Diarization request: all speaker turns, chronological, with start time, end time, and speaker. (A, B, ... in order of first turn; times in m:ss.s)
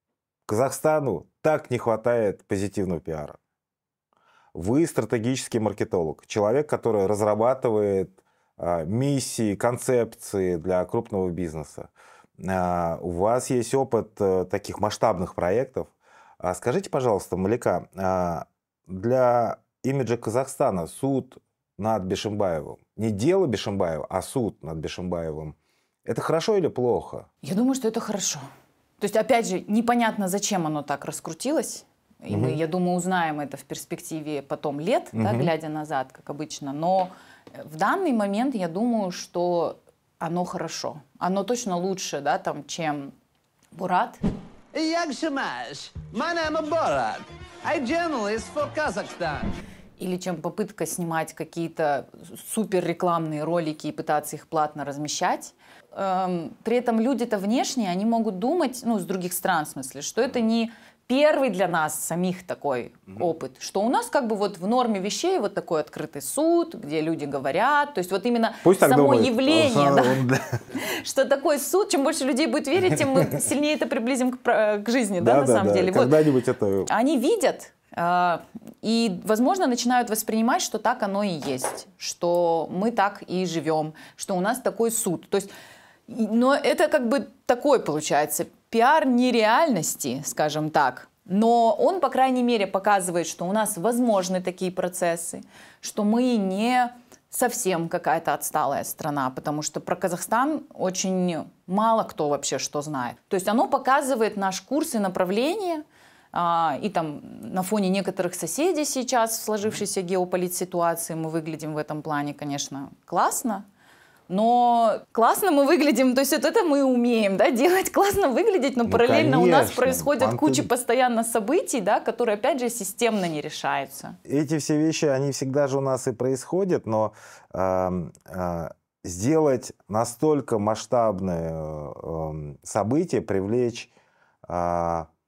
0:00.5-0:03.4 A
0:04.5-0:27.3 A
0:27.4-0:28.4 B
0:29.0-0:43.1 B
0:32.3-0:32.6 A
0:35.1-0:35.5 A
0:43.7-0:44.2 B
0:44.7-0:49.5 C
0:50.0-1:16.2 B
1:08.6-1:10.6 A
1:12.9-1:13.4 A
1:15.2-1:16.9 A
1:16.9-1:25.5 B
1:26.1-1:53.6 B
1:54.3-2:04.2 B
1:58.9-2:00.7 A
2:04.2-2:13.9 A
2:14.5-2:15.1 A